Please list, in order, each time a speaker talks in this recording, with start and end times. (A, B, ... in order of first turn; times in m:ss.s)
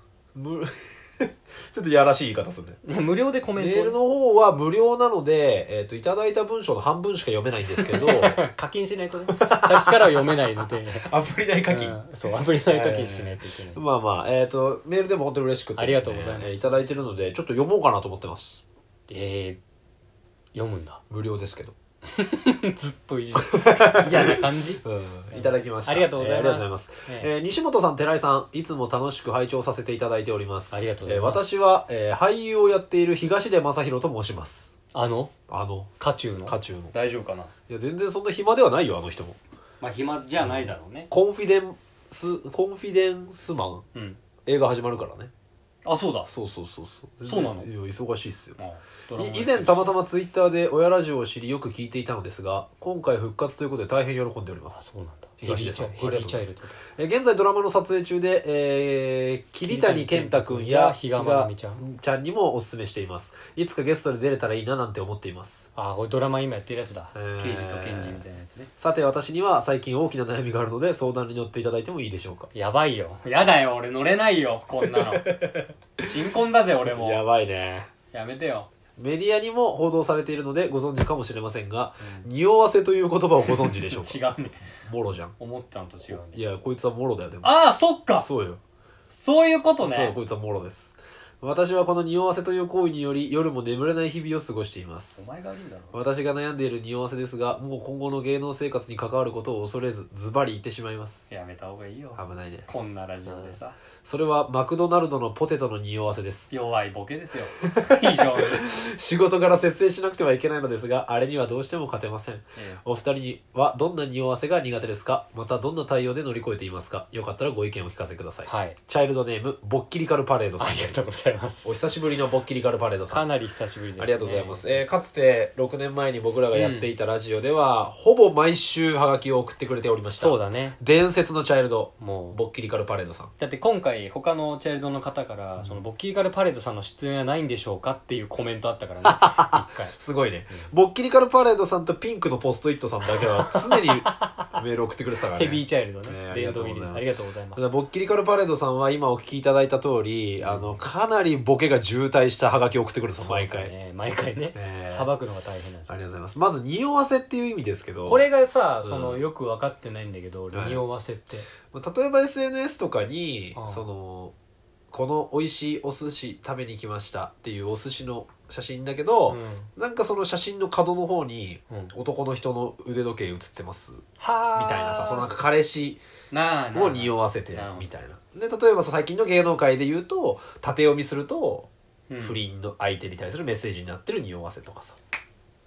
0:00.4-0:02.8 A
0:02.8-0:04.0 B
0:03.6-0:08.4 A
0:07.7-0:11.1 B
0:09.3-0:10.2 A
0:11.0-0:12.0 A
0:11.7-0:13.8 B
0:12.6-0:18.6 A
0:15.8-0:16.8 B
0:19.1-0:19.6 B
0:20.5-0:21.0 B
0:21.1-0:21.8 A
0:22.1-0:27.3 B
0:23.4-0:34.7 A
0:30.7-0:31.6 B
0:34.9-0:35.3 B
0:35.5-0:35.9 A
0:36.0-0:37.5 B
0:36.5-0:36.9 A
0:37.7-0:39.4 A
0:39.8-0:41.1 B
0:40.4-0:43.8 A
0:43.9-0:44.2 B
0:44.4-0:45.3 A
0:45.8-0:46.3 B
0:46.3-0:48.6 A
0:47.2-0:47.7 B
0:48.6-0:50.0 B
0:49.1-0:54.8 A
0:54.7-0:56.8 B
0:55.4-1:05.7 A
0:59.6-1:01.8 B
1:05.8-1:08.7 B
1:07.1-1:08.2 A
1:08.8-1:12.5 A
1:12.5-1:15.3 B
1:14.8-1:16.1 A
1:16.0-1:17.2 B
1:16.9-1:17.9 A
1:18.1-1:18.7 B
1:19.0-1:24.2 A
1:22.0-1:22.3 B
1:23.4-1:24.7 B
1:24.8-1:25.3 A
1:25.4-1:26.4 B
1:26.1-1:27.6 A
1:27.4-1:28.3 B
1:28.2-1:28.6 A
1:29.1-1:30.2 B
1:29.8-1:35.2 A
1:35.2-1:36.0 B
1:35.9-1:41.2 A
1:41.3-1:43.8 B
1:42.2-1:42.7 A
1:43.3-1:46.5 A
1:46.5-1:48.6 B
1:47.6-2:01.0 A
1:52.6-1:52.8 B
1:58.5-1:58.8 B
2:00.6-2:01.8 B
2:01.6-2:03.3 A
2:03.1-2:04.8 B
2:04.0-2:13.3 A
2:06.5-2:06.9 B
2:10.1-2:10.8 B
2:12.0-2:12.4 B
2:13.4-2:19.9 B
2:19.0-2:33.7 A
2:23.4-2:24.5 B
2:25.3-2:27.6 B
2:30.4-2:30.8 B
2:33.2-2:36.0 B
2:34.6-2:35.1 A
2:35.9-2:38.3 A
2:38.0-2:41.5 B
2:38.8-2:39.2 A
2:40.5-2:40.8 A
2:41.7-2:44.3 A
2:43.6-2:43.8 B
2:44.9-2:54.0 A
2:49.3-2:49.7 B
2:54.2-2:55.4 B
2:54.5-2:56.0 A
2:56.3-2:57.9 B
2:56.7-3:01.7 A
3:02.1-3:02.4 B
3:02.2-3:05.0 A